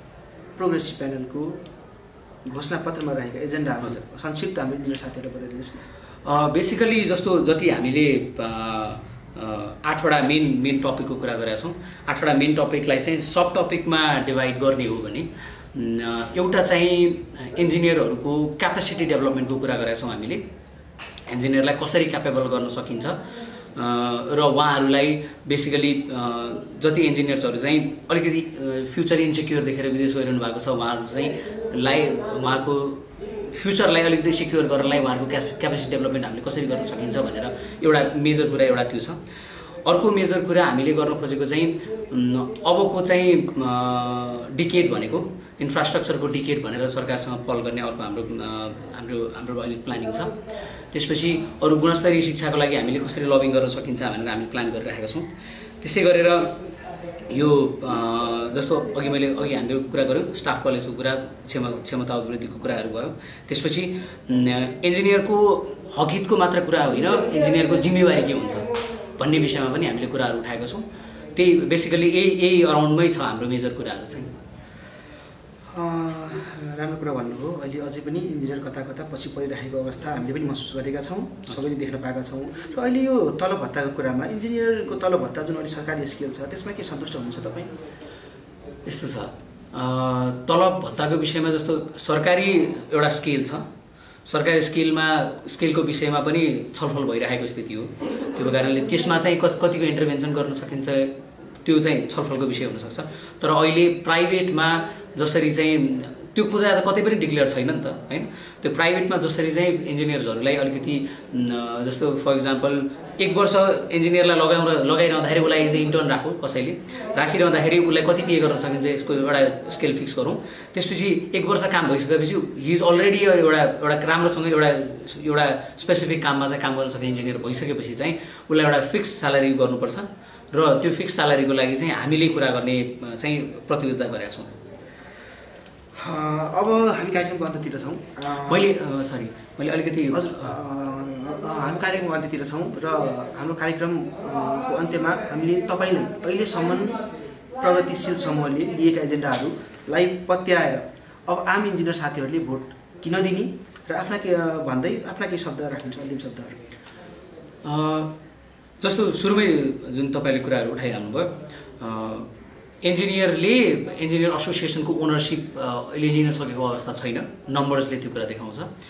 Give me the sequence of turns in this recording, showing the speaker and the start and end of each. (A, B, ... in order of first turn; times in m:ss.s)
0:00.6-0:01.6 A
0:02.4-0:05.8 A
0:06.2-0:20.4 B
0:21.3-0:23.1 B
0:23.8-0:39.2 B
0:39.8-0:50.3 B
0:50.9-0:55.3 B
0:55.8-0:56.5 B
0:57.3-1:08.6 B
1:09.2-1:10.8 B
1:11.3-1:14.3 B
1:15.7-1:27.7 A
1:28.8-1:33.6 B
1:34.2-2:14.5 B
2:16.0-2:18.7 A
2:18.4-2:20.5 B
2:20.1-2:27.0 A
2:27.6-2:36.6 A
2:37.6-2:38.1 B
2:38.8-2:42.3 B
2:42.8-2:48.7 B